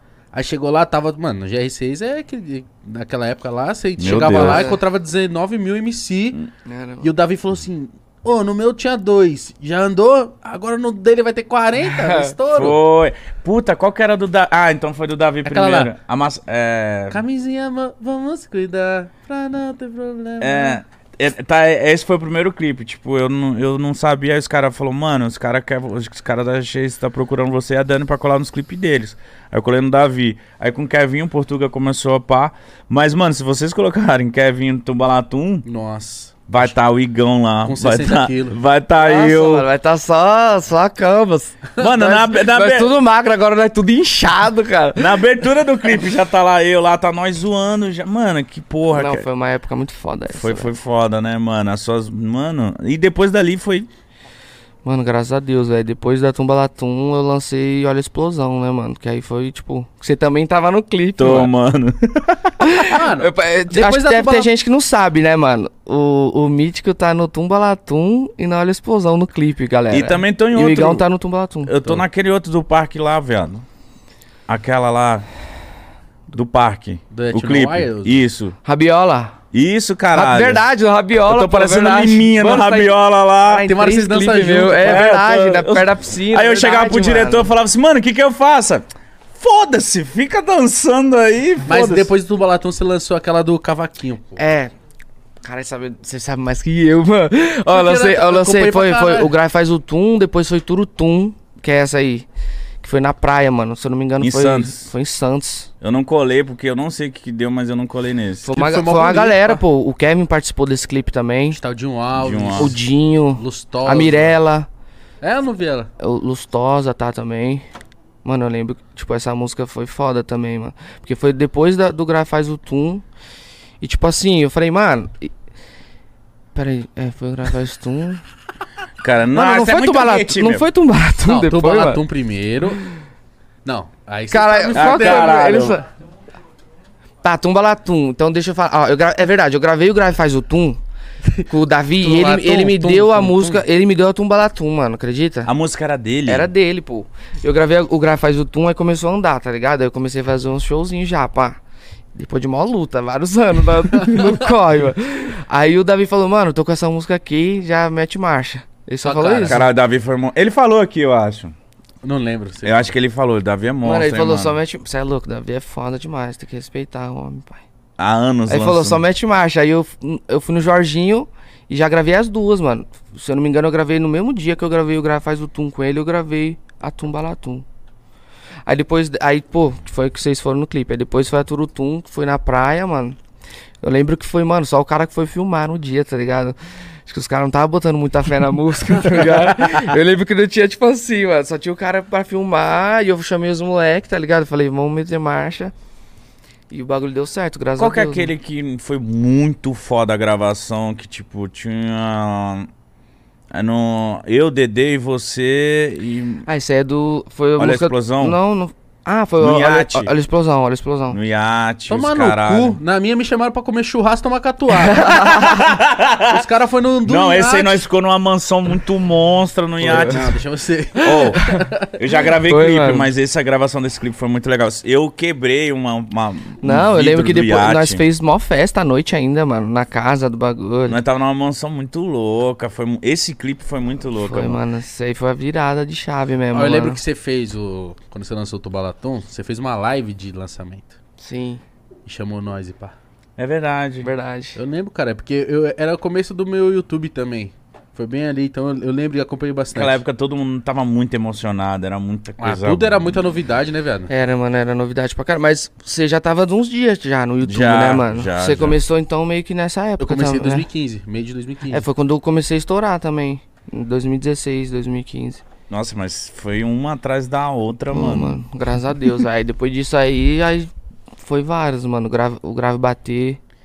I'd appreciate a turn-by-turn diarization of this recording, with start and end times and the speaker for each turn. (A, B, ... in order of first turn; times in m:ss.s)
0:00.3-0:06.4 A
0:04.0-0:04.7 B
0:04.0-0:04.8 C
0:06.7-0:07.1 C
0:07.0-0:12.8 A
0:11.9-0:12.3 C
0:12.5-0:17.2 B
0:15.4-0:15.9 A
0:17.1-0:20.8 A
0:20.4-0:35.7 B
0:35.6-0:36.7 A
0:36.5-0:39.7 B
0:37.6-0:38.6 A
0:38.9-0:45.3 C
0:41.8-0:42.9 B
0:45.0-0:49.2 B
0:48.9-0:50.7 C
0:50.3-0:53.9 B
0:54.8-1:01.5 C
1:01.2-1:02.7 B
1:02.6-1:11.7 C
1:02.8-1:04.5 A
1:09.9-1:11.0 B
1:11.6-1:13.6 B
1:14.5-1:15.3 B
1:16.3-1:18.6 B
1:17.1-1:18.2 A
1:18.6-1:19.3 C
1:19.5-1:20.6 B
1:20.1-1:27.5 C
1:21.2-1:23.7 B
1:23.6-1:25.0 A
1:24.8-1:32.1 B
1:31.7-1:34.4 A
1:34.4-1:34.7 C
1:35.4-1:42.3 C
1:37.7-1:39.4 A
1:42.8-1:45.7 C
1:44.2-1:44.9 B
1:45.8-1:48.5 B
1:48.4-1:51.6 C
1:48.5-1:49.6 A
1:51.5-1:52.8 A
1:52.1-1:52.7 B
1:52.6-1:54.7 C
1:53.4-1:54.3 A
1:55.2-1:55.9 A
1:56.0-1:57.6 C
1:58.2-2:03.0 C
2:03.8-2:05.3 C
2:06.5-2:08.2 C
2:09.0-2:10.7 B
2:09.3-2:12.0 C
2:11.2-2:12.8 A
2:13.6-2:15.5 A
2:14.3-2:15.9 C
2:14.7-2:15.8 B
2:17.2-2:20.8 C
2:21.5-2:25.5 C
2:22.0-2:23.6 A
2:25.5-2:26.5 B
2:26.3-2:31.6 C
2:32.2-2:39.7 C
2:39.0-2:39.6 A
2:39.5-2:41.5 B
2:42.0-2:42.9 A
2:42.6-2:44.6 B
2:43.8-2:47.6 C
2:48.0-2:49.0 B
2:48.5-2:57.6 C
2:58.7-3:03.2 C
3:03.8-3:15.7 C
3:16.7-3:18.3 C
3:17.8-3:22.7 B
3:23.5-3:26.5 B
3:26.5-3:31.2 C
3:27.6-3:28.4 B
3:29.4-3:30.1 B
3:31.1-3:32.8 B
3:31.9-3:35.4 A
3:34.9-3:35.6 C
3:35.0-3:36.3 B
3:36.2-3:37.8 A
3:37.1-3:40.3 B
3:39.8-3:41.9 A
3:39.9-3:40.3 C
3:41.0-3:41.4 B
3:41.0-3:41.6 C
3:42.0-3:48.0 B
3:42.4-3:43.1 C
3:46.6-3:51.0 C
3:50.9-3:54.6 B
3:54.1-3:57.0 C
3:56.5-4:01.0 A
4:01.2-4:01.6 C
4:02.1-4:02.9 A
4:03.4-4:04.1 B
4:04.0-4:04.6 C
4:04.6-4:10.0 A
4:09.7-4:13.2 B
4:12.4-4:14.1 A
4:14.1-4:20.7 C
4:17.4-4:18.8 B
4:20.0-4:21.8 A
4:21.7-4:25.4 C
4:25.7-4:28.4 B
4:27.9-4:33.4 C